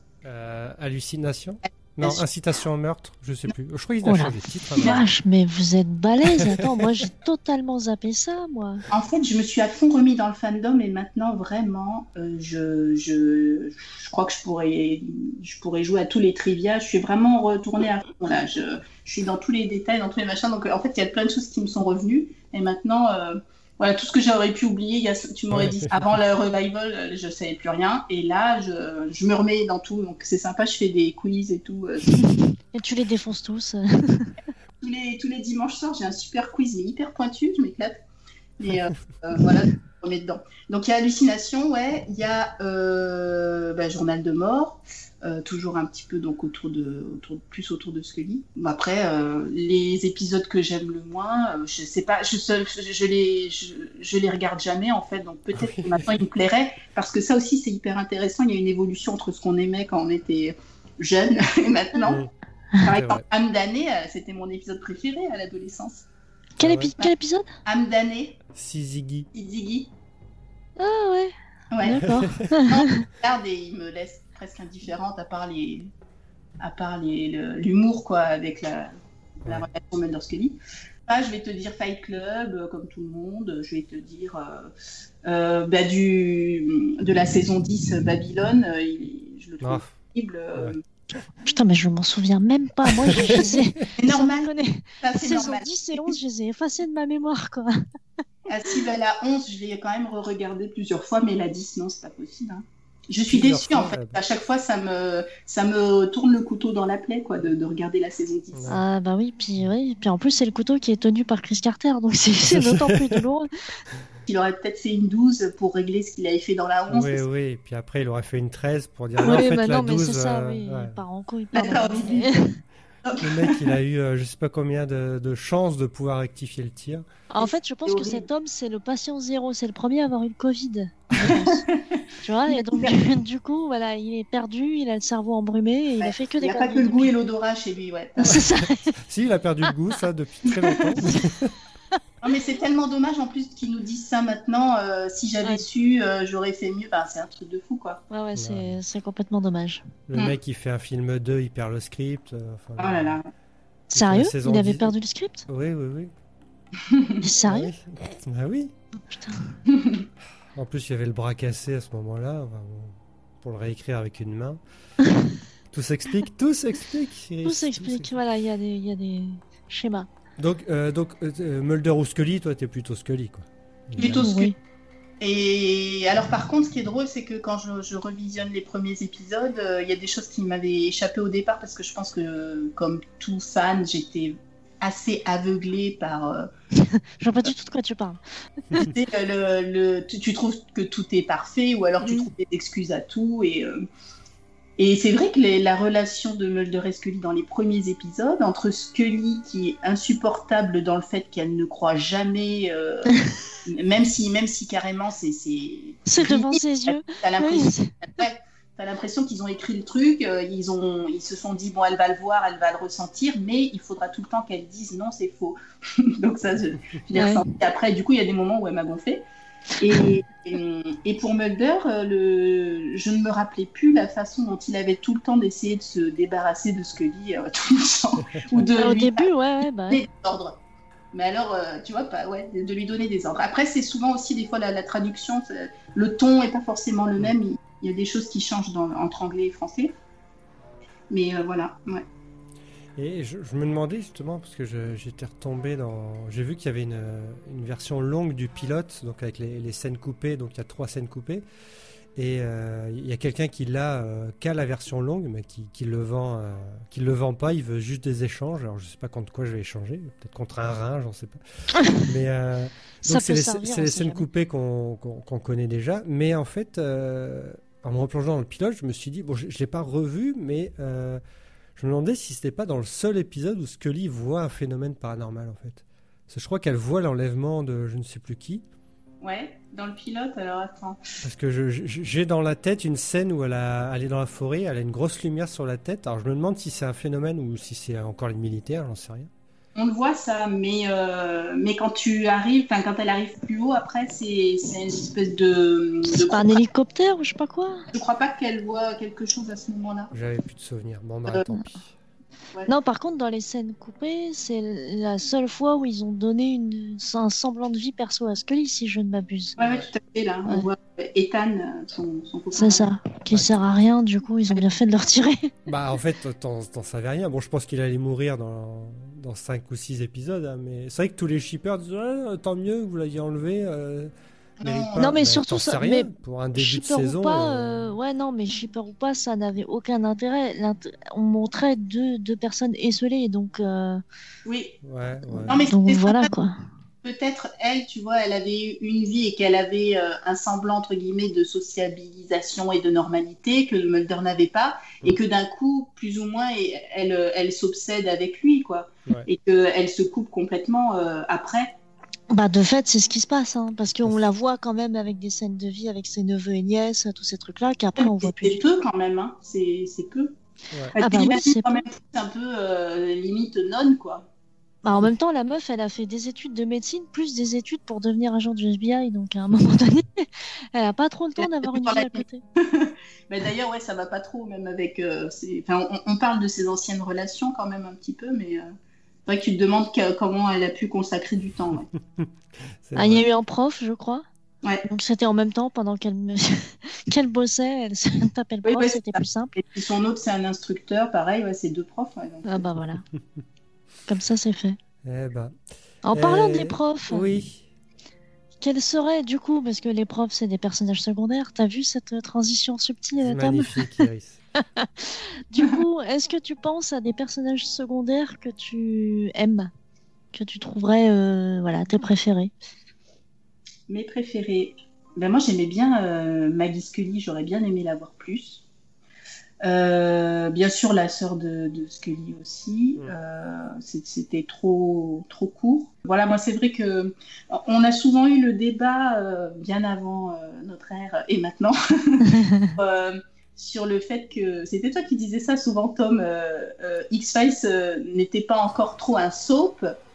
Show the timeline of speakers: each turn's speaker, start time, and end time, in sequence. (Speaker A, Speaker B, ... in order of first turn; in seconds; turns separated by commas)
Speaker A: 0.2-5.0, Speaker B: 4.0-8.8, Speaker C: 8.9-32.3, Speaker A: 25.5-26.0, Speaker B: 32.7-34.3, Speaker C: 34.8-38.0, Speaker C: 38.6-62.2, Speaker A: 55.6-56.1, Speaker A: 62.0-62.3, Speaker C: 62.8-66.0, Speaker A: 62.9-63.2, Speaker A: 66.6-66.9, Speaker B: 66.6-67.5, Speaker C: 67.6-68.4, Speaker A: 68.5-69.3, Speaker C: 69.3-69.9, Speaker B: 70.8-72.9, Speaker C: 71.7-75.9, Speaker A: 72.1-72.4, Speaker C: 76.6-78.9, Speaker C: 79.4-84.7, Speaker C: 85.2-90.8, Speaker A: 89.6-89.9, Speaker B: 91.4-97.8, Speaker A: 93.1-93.4, Speaker C: 93.2-94.5, Speaker C: 95.0-95.8, Speaker C: 98.5-108.7, Speaker A: 103.3-104.2, Speaker A: 108.5-108.8, Speaker B: 108.7-113.5, Speaker A: 112.5-113.1, Speaker C: 114.2-117.2, Speaker A: 116.9-121.0, Speaker B: 119.2-122.6, Speaker C: 121.5-122.3, Speaker C: 123.0-123.7, Speaker A: 123.2-127.0, Speaker B: 127.3-131.6, Speaker C: 127.4-128.3, Speaker C: 131.2-133.0, Speaker B: 132.2-137.1, Speaker C: 136.0-138.4, Speaker B: 138.2-138.9, Speaker A: 139.0-141.5, Speaker C: 142.2-148.0, Speaker B: 148.1-149.9, Speaker A: 148.3-148.8, Speaker A: 150.1-153.2, Speaker C: 152.8-153.2, Speaker A: 153.9-154.9, Speaker B: 153.9-155.4, Speaker A: 155.5-156.1, Speaker C: 156.9-157.2, Speaker B: 157.2-157.7, Speaker A: 157.4-158.7, Speaker B: 159.1-159.6, Speaker C: 159.7-160.0, Speaker A: 160.5-164.6, Speaker A: 165.7-168.1, Speaker B: 167.4-170.1, Speaker A: 170.4-174.3, Speaker C: 174.0-174.5, Speaker B: 174.0-174.6, Speaker C: 175.2-186.5, Speaker B: 186.8-188.2, Speaker C: 188.8-193.8, Speaker B: 192.0-192.3, Speaker C: 194.8-219.2, Speaker B: 206.1-207.9, Speaker B: 217.1-217.4, Speaker C: 219.8-229.3, Speaker B: 228.8-230.0, Speaker C: 229.9-230.6, Speaker C: 231.1-239.9, Speaker C: 241.1-242.0, Speaker A: 243.0-251.4, Speaker A: 252.2-261.4, Speaker A: 261.9-271.2, Speaker B: 263.0-264.2, Speaker A: 271.8-278.6, Speaker C: 279.2-281.0, Speaker A: 281.2-289.3, Speaker C: 289.7-296.6, Speaker B: 296.1-297.9, Speaker C: 297.9-300.1, Speaker A: 300.1-301.9, Speaker B: 302.7-309.7, Speaker C: 309.6-312.9, Speaker B: 312.5-315.5, Speaker A: 313.3-313.6, Speaker A: 315.7-324.1, Speaker C: 324.6-325.2, Speaker A: 324.6-327.9, Speaker B: 325.0-334.0, Speaker C: 334.4-334.8, Speaker A: 334.8-335.6, Speaker C: 335.4-336.3, Speaker B: 335.7-336.6, Speaker C: 337.0-351.7, Speaker B: 352.3-358.6, Speaker C: 358.0-360.4, Speaker C: 360.9-364.3, Speaker B: 361.0-361.9, Speaker B: 364.8-372.4, Speaker C: 371.4-378.7, Speaker C: 379.2-381.9, Speaker A: 382.8-383.2, Speaker B: 382.9-384.2, Speaker B: 384.8-389.5, Speaker C: 388.6-392.7, Speaker B: 392.4-393.0, Speaker B: 394.1-394.8, Speaker A: 395.0-395.5, Speaker B: 396.0-397.3, Speaker A: 396.1-397.6, Speaker B: 398.6-404.0, Speaker A: 403.2-404.4, Speaker B: 404.6-409.7, Speaker B: 410.3-412.5, Speaker C: 413.9-418.6, Speaker C: 419.6-439.9, Speaker B: 432.3-432.7